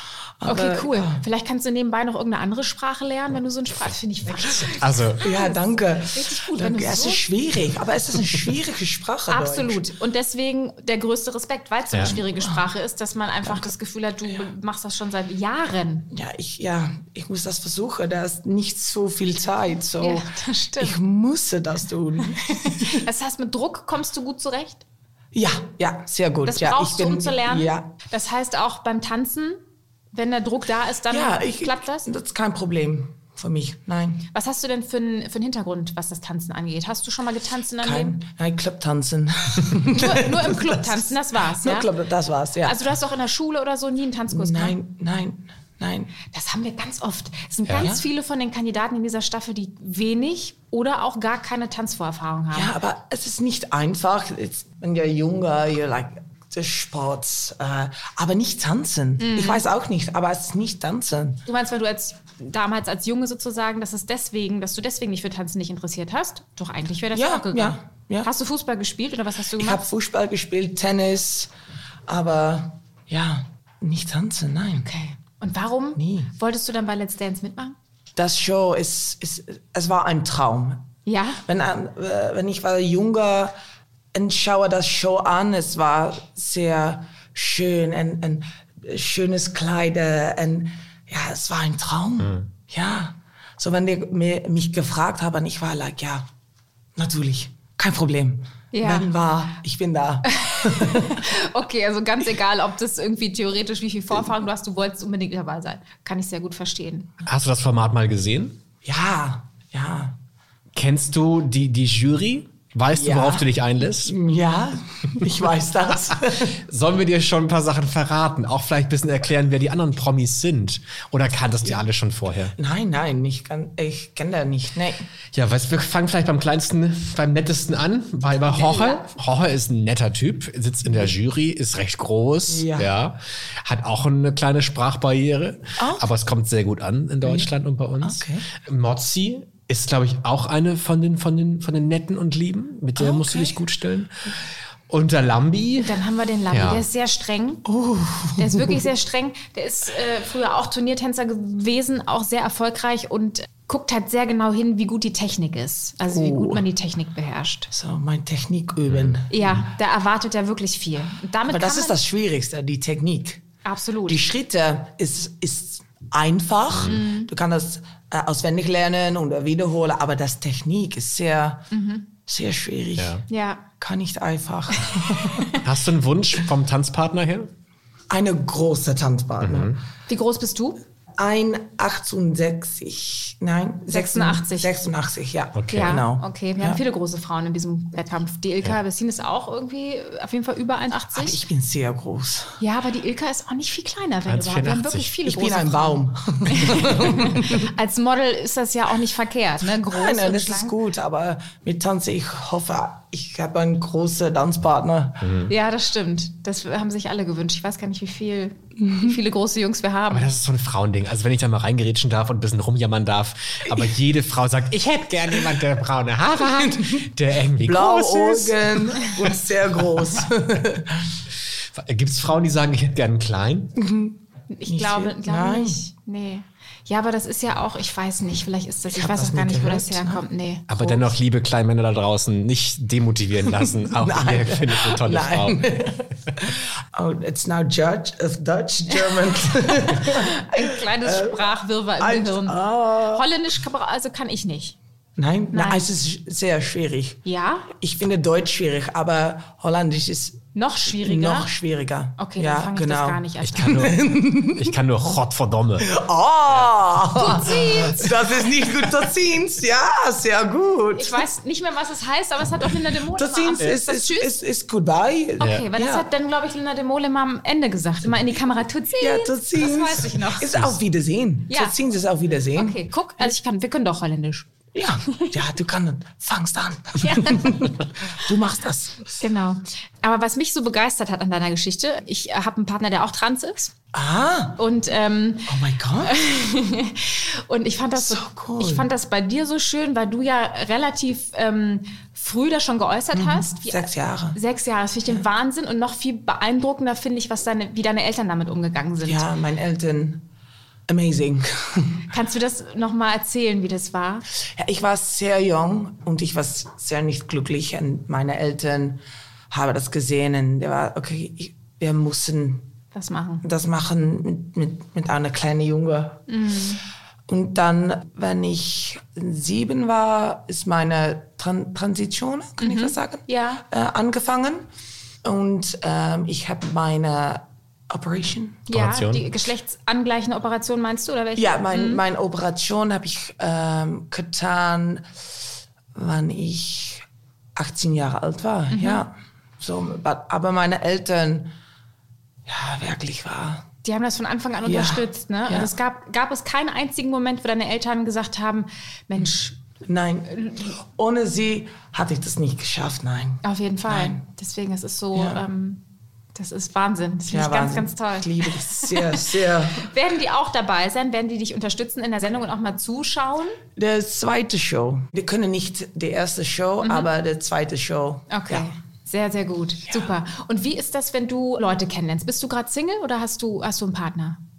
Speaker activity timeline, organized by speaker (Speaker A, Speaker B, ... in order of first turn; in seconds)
Speaker A: 0.4-1.2, 5.2-9.9, 12.0-12.6, 16.1-23.1, 25.3-28.0, 31.1-34.3, 37.8-42.9, 44.3-46.1, 47.8-48.0, 52.5-61.4, 67.1-68.3, 69.5-71.5, 72.1-74.9, 76.0-76.3, 78.2-80.8, 81.5-83.5, 84.1-96.3, 97.0-101.3, 108.8-110.2, 112.9-116.6, 122.6-125.0, 130.9-131.1, 132.5-132.9, 135.8-136.1, 137.2-137.5, 138.0-138.5, 143.0-143.6, 147.7-148.9, 156.1-156.7, 157.7-159.6, 161.5-163.4, 164.1-171.7, 172.3-173.2, 173.8-175.5, 178.1-179.7, 181.2-186.8, 191.1-192.6, 195.3-197.7, 199.8-205.3, 208.8-209.2, 213.7-213.9, 216.6-216.9, 217.6-220.9, 223.8-225.8, 228.9-230.2, 230.8-231.1, 233.4-243.3, 245.2-254.8, 255.8-261.3, 263.1-266.1, 269.0-273.3, 274.7-279.2, 283.9-284.6, 285.5-286.2, 287.9-288.9, 293.1-294.4, 299.0-300.3, 300.9-302.1, 304.6-312.7, 313.4-316.3, 317.3-324.6, 325.2-328.7, 331.4-335.1, 335.9-337.1, 337.6-341.5, 342.5-343.6, 344.6-345.7, 349.9-354.3, 355.1-355.4, 357.3-359.9, 363.8-368.7, 369.9-370.1
Speaker B: 0.5-7.2, 9.3-16.1, 20.0-21.0, 22.6-24.8, 26.5-29.6, 30.1-32.1, 34.3-38.2, 39.9-41.9, 42.6-44.8, 46.3-52.7, 59.2-59.7, 61.5-69.8, 74.8-77.8, 81.1-81.4, 98.7-99.1, 100.3-107.1, 128.5-129.0, 145.8-147.7, 148.4-157.7, 159.3-162.0, 163.6-164.2, 166.8-167.3, 171.7-172.1, 173.3-173.7, 174.9-175.6, 180.1-180.8, 183.9-184.8, 185.7-191.4, 192.6-200.8, 205.5-210.3, 224.5-230.7, 238.9-244.8, 245.5-245.9, 247.2-247.7, 250.6-251.5, 252.2-253.8, 257.1-258.1, 261.0-264.3, 265.4-270.7, 271.5-271.8, 272.6-274.5, 277.0-277.7, 279.2-283.7, 284.6-299.2, 302.1-304.2, 312.9-313.4, 316.3-316.8, 322.6-323.6, 328.7-332.0, 338.7-339.0, 343.8-349.6, 353.4-363.6, 366.8-367.1, 368.3-374.4
Speaker C: 4.7-5.2, 11.9-12.2, 92.2-92.5, 107.3-108.6, 110.8-114.1, 116.7-122.5, 125.3-144.1, 144.9-146.8, 158.9-159.2, 166.7-167.0, 173.0-173.2, 175.6-177.5, 179.4-179.8, 185.6-186.0, 194.3-195.2, 205.2-205.5, 210.1-219.0, 221.8-223.7, 230.7-235.7, 253.4-254.0, 254.5-255.9, 328.7-329.2